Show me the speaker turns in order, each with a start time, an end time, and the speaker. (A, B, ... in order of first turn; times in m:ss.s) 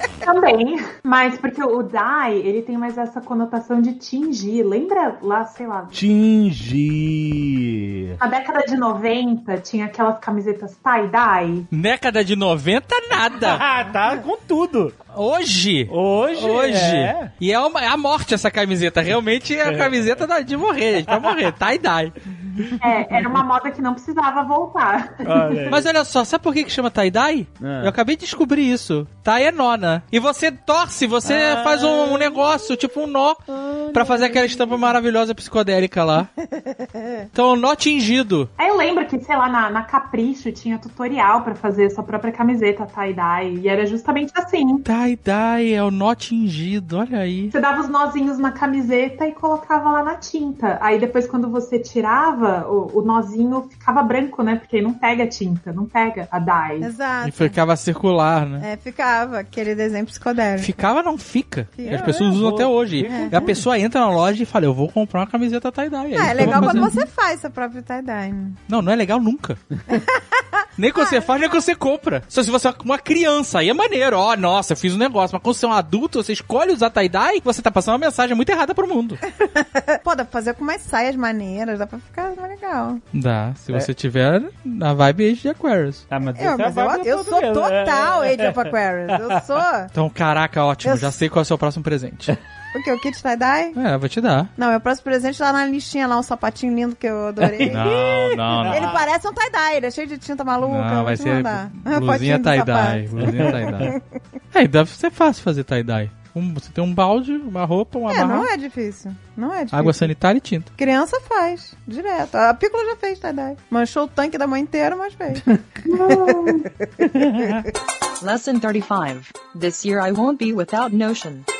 0:00.2-0:06.0 A
0:05.9-0:08.2 B
0:08.2-0:11.7 A
0:11.7-0:13.6 C
0:13.4-0:15.0 B
0:15.1-0:22.7 C
0:15.9-0:17.3 B
0:19.6-0:19.9 B
0:22.8-0:25.6 A
0:25.2-0:25.9 B
0:25.7-0:36.3 C
0:27.6-0:27.9 B
0:31.2-0:32.4 B
0:33.5-0:34.8 D
0:36.5-0:37.3 D
0:37.3-0:38.5 C
0:38.6-0:44.8 A
0:44.8-0:47.5 C
0:47.5-0:56.9 A
0:56.8-0:57.6 D
0:57.2-0:58.6 C
0:58.6-1:00.7 D
1:00.6-1:07.0 C
1:01.8-1:02.2 D
1:01.8-1:03.6 B
1:03.0-1:03.5 D
1:06.1-1:08.6 D
1:06.4-1:06.8 B
1:08.7-1:09.6 C
1:09.9-1:11.4 D
1:10.8-1:19.2 C
1:19.3-1:23.0 D
1:23.1-1:26.0 C
1:26.1-1:29.4 B
1:26.3-1:29.9 D
1:29.9-1:32.4 C
1:30.8-1:31.2 D
1:32.7-1:33.8 D
1:33.8-1:34.5 C
1:34.6-1:38.0 D
1:37.4-1:39.0 B
1:37.7-1:39.0 C
1:38.6-1:44.0 D
1:40.6-1:43.9 C
1:43.2-1:43.9 B
1:44.5-1:48.5 C
1:48.1-1:50.1 D
1:49.7-1:50.7 C
1:50.8-1:55.5 D
1:55.8-1:56.7 A
1:56.0-1:56.6 D
1:57.0-1:57.7 B
1:58.2-2:01.4 E